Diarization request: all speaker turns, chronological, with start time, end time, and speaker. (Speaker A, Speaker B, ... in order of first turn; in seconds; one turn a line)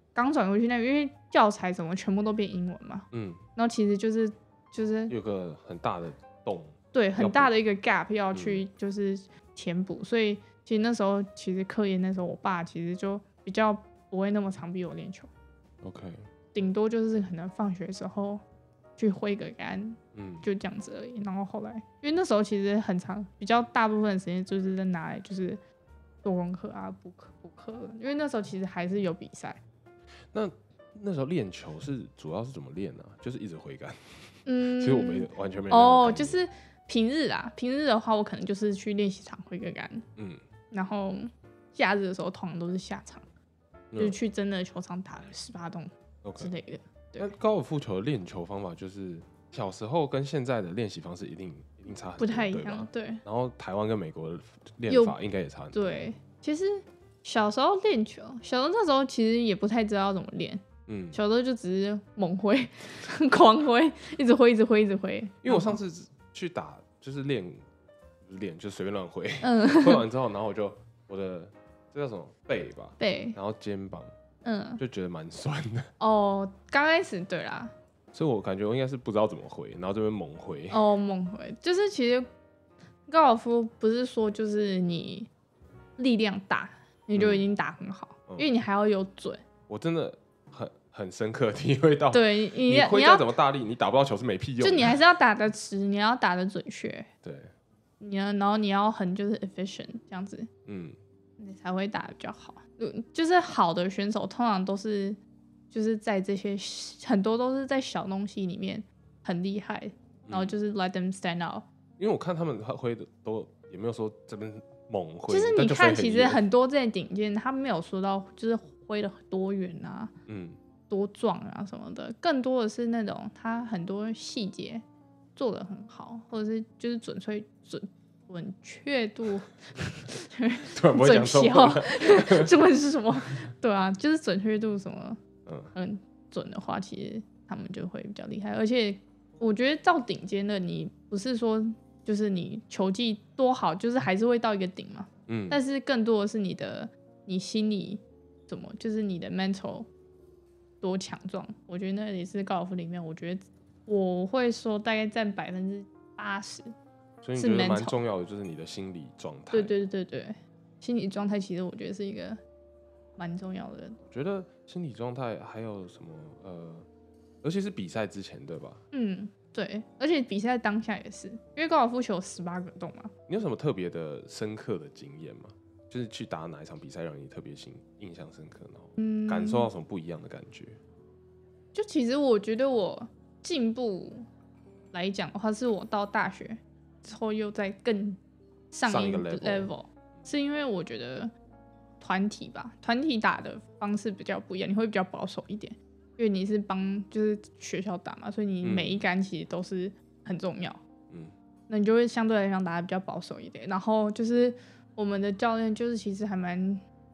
Speaker A: 0.1-5.1
Speaker B: 3.1-3.4
Speaker B: 5.1-7.5
Speaker A: 6.9-15.3
Speaker B: 8.3-8.6
Speaker B: 15.8-16.2
Speaker A: 16.5-18.4
Speaker A: 19.0-25.6
Speaker B: 20.1-20.5
Speaker A: 26.2-29.6
Speaker B: 30.3-36.4
Speaker A: 34.5-40.0
Speaker B: 40.1-40.4
Speaker A: 40.7-43.2
Speaker B: 43.9-44.2
Speaker A: 44.0-47.3
Speaker B: 46.2-46.5
Speaker B: 47.2-56.0
Speaker A: 52.2-53.2
Speaker A: 54.9-55.2
Speaker A: 55.7-65.8
Speaker B: 60.9-61.2
Speaker B: 65.4-67.6
Speaker B: 68.2-74.1
Speaker A: 69.4-70.0
Speaker A: 73.0-73.4
Speaker A: 74.4-74.8
Speaker B: 74.8-75.9
Speaker A: 76.0-77.7
Speaker B: 78.1-80.8
Speaker A: 80.7-82.3
Speaker A: 83.1-85.3
Speaker A: 86.0-89.4
Speaker B: 87.1-87.4
Speaker B: 89.7-95.0
Speaker A: 92.1-93.3
Speaker A: 94.6-97.1
Speaker B: 97.2-97.5
Speaker A: 98.0-100.5
Speaker B: 100.7-101.0
Speaker A: 101.4-105.2
Speaker A: 105.7-111.7
Speaker B: 110.2-110.5
Speaker B: 112.0-116.4
Speaker A: 115.3-120.1
Speaker B: 120.2-120.6
Speaker A: 120.9-124.8
Speaker A: 125.3-135.2
Speaker B: 130.7-132.5
Speaker B: 135.4-135.7
Speaker A: 135.7-149.9
Speaker B: 145.3-145.6
Speaker A: 150.8-156.7
Speaker B: 157.2-159.7
Speaker A: 157.3-158.0
Speaker A: 159.5-162.4
Speaker A: 163.2-164.0
Speaker B: 164.1-166.8
Speaker B: 167.4-168.8
Speaker A: 168.9-173.1
Speaker B: 173.3-180.8
Speaker A: 179.0-179.7
Speaker A: 181.7-184.3
Speaker A: 184.9-188.2
Speaker A: 188.7-191.3
Speaker B: 188.8-189.7
Speaker A: 192.0-200.8
Speaker B: 198.6-199.0
Speaker A: 201.7-206.8